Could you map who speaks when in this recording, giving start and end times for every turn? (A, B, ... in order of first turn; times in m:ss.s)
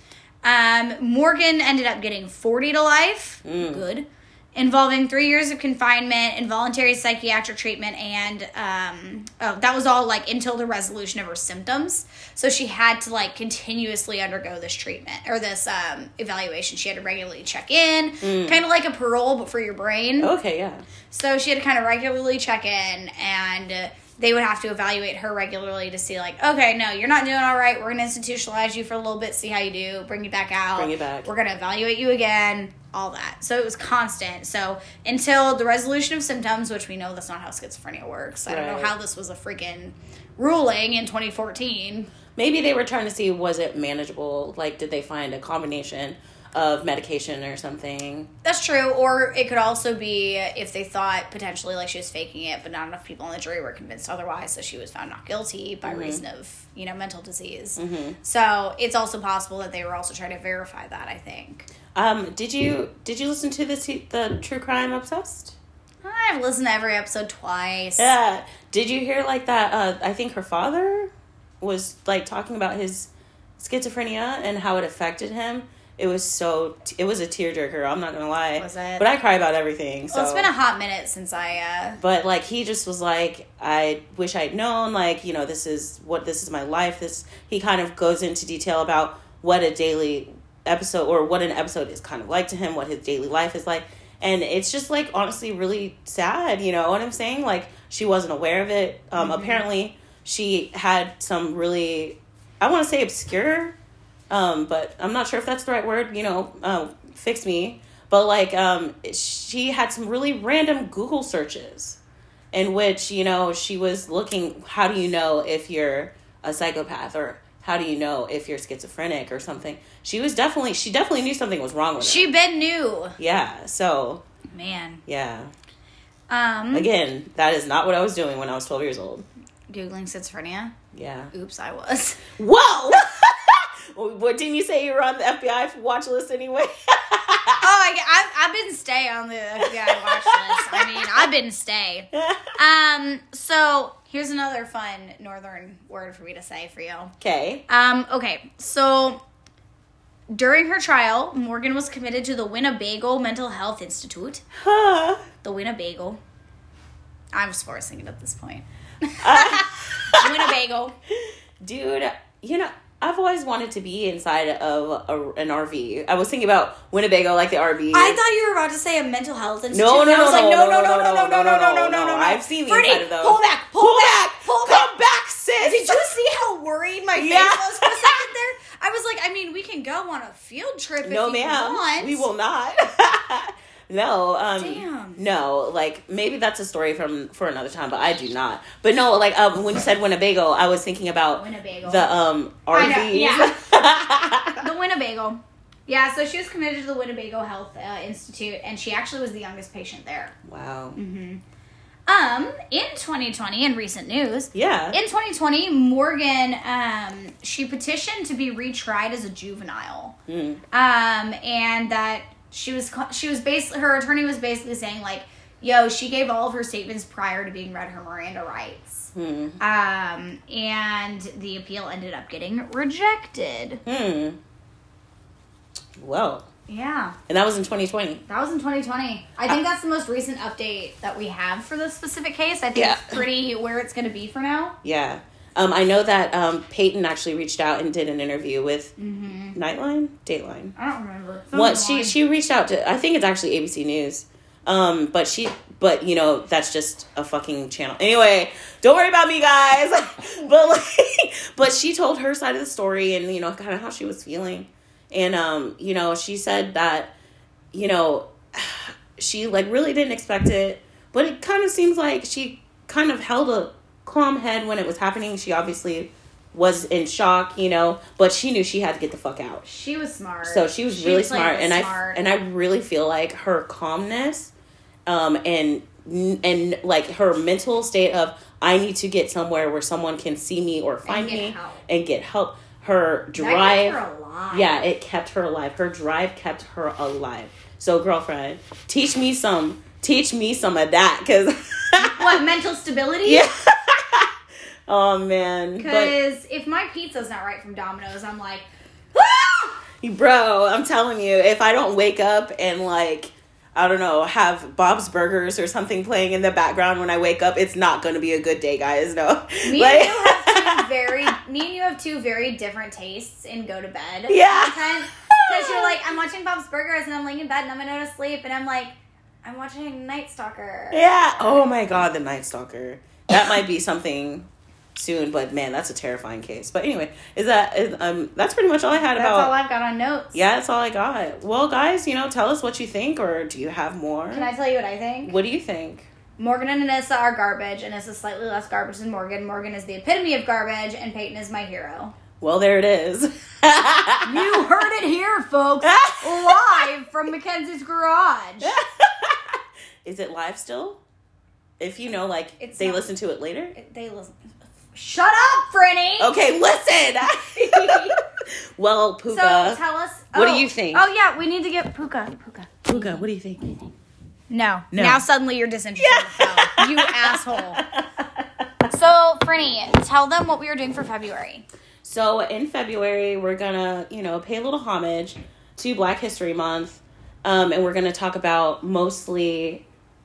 0:00.4-0:20.3 A
0:03.4-0:03.8 B
0:18.2-0:18.6 B
0:20.2-0:20.8 B
0:21.1-0:42.1 A
0:30.7-0:31.3 B
0:38.5-0:38.9 B
0:42.4-0:48.3 B
0:48.4-1:01.7 A
0:55.8-0:56.2 B
0:57.8-0:58.2 B
1:01.9-1:05.6 B
1:06.0-1:08.1 A
1:08.0-1:20.5 B
1:18.6-1:19.1 A
1:20.1-1:22.0 A
1:22.0-1:43.8 B
1:39.2-1:39.6 A
1:44.3-1:52.0 B
1:52.5-2:02.3 B
2:02.0-2:03.2 A
2:03.2-2:04.2 B
2:04.5-2:05.0 A
2:05.1-2:05.5 B
2:06.3-2:06.9 A
2:06.7-2:09.2 B
2:09.7-2:10.7 A
2:10.9-2:11.3 B
2:11.3-2:12.3 A
2:12.3-2:17.6 B
2:17.6-2:27.1 A
2:19.6-2:21.2 B
2:22.2-2:22.5 B
2:27.2-2:27.6 B
2:27.7-2:29.2 A
2:30.3-2:34.4 A
2:34.5-2:35.2 B
2:35.4-2:36.2 A
2:37.3-2:40.9 A
2:39.2-2:40.5 B
2:41.1-2:48.2 B
2:47.9-2:55.0 A
2:49.7-2:56.1 B
2:55.6-3:02.3 A
2:57.1-2:58.2 B
3:01.0-3:14.6 B
3:04.6-3:05.2 A
3:11.4-3:12.1 A
3:12.7-3:13.7 A
3:14.6-3:20.3 A
3:20.4-3:21.0 B
3:21.0-3:21.4 A
3:22.1-3:30.1 A
3:24.5-3:25.0 B
3:30.3-3:30.6 B
3:30.7-3:43.8 A
3:39.1-3:39.6 B
3:43.8-3:44.4 B
3:46.0-3:46.4 B
3:46.7-3:47.2 A
3:47.3-3:48.2 B
3:48.3-3:54.8 A
3:52.7-3:53.2 B
3:54.8-3:58.9 B
3:59.0-3:59.6 A
3:59.5-4:00.7 B
4:00.8-4:02.1 A
4:01.5-4:17.1 B
4:17.7-4:29.6 B
4:29.6-4:32.2 A
4:30.4-4:34.5 B
4:35.0-4:44.0 B
4:41.1-4:41.8 A
4:43.4-4:44.8 A
4:44.5-4:52.4 B
4:52.0-4:53.5 A
4:53.2-4:54.3 B
4:54.9-4:56.1 B
4:55.8-4:59.7 A
5:00.0-5:10.9 B
5:09.6-5:21.1 A
5:14.3-5:16.0 B
5:20.9-5:29.5 B
5:29.1-5:30.4 A
5:30.3-5:34.5 B
5:34.3-5:35.4 A
5:35.2-5:36.1 B
5:36.4-5:42.2 A
5:42.4-5:44.6 B
5:44.2-5:48.8 A
5:45.8-5:46.8 B
5:48.6-5:51.0 B
5:51.8-5:53.7 B
5:52.6-5:53.1 A
5:53.7-5:54.4 A
5:54.9-5:56.4 A
5:56.2-5:59.8 B
5:57.5-5:58.2 A
5:59.3-6:03.8 A
6:00.3-6:01.0 B
6:02.9-6:03.7 B
6:04.5-6:07.8 A
6:04.9-6:05.2 B
6:06.0-6:08.7 B
6:08.9-6:11.6 A
6:12.0-6:19.8 B